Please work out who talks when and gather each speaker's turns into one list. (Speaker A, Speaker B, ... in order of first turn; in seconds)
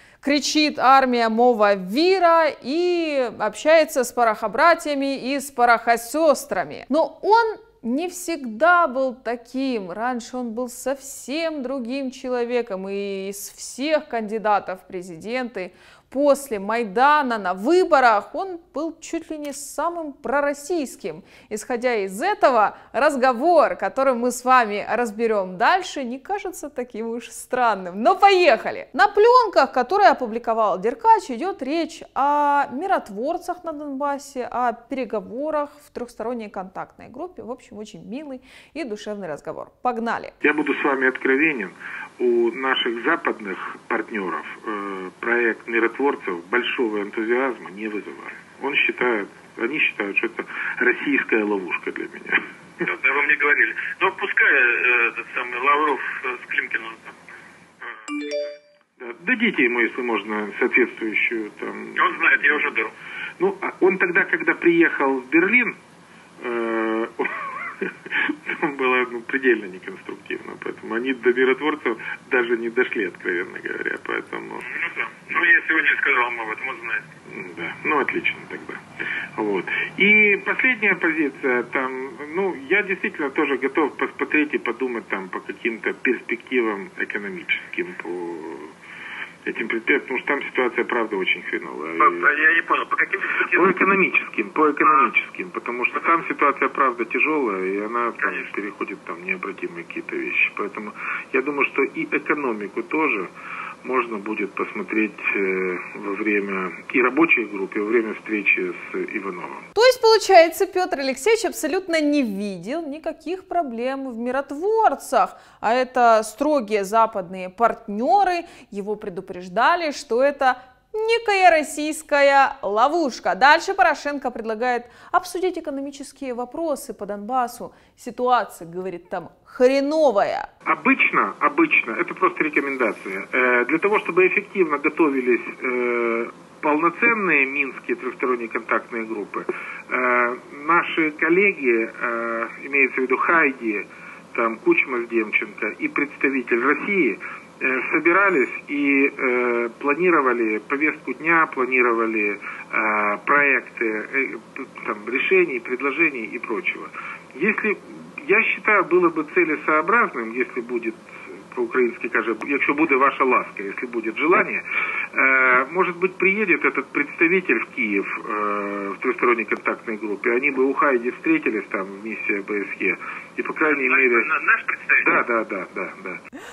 Speaker A: 0.2-40.3, 109.8-130.5
Speaker B: 40.4-52.4, 59.0-62.6, 63.4-65.8, 66.4-74.8, 77.3-78.8, 79.4-88.7, 89.5-92.3, 93.4-103.3, 103.8-109.7, 130.7-174.3, 175.0-176.2
Speaker C: 52.8-57.2, 57.8-58.5, 62.0-62.9, 74.7-77.1, 92.0-93.8, 173.6-175.2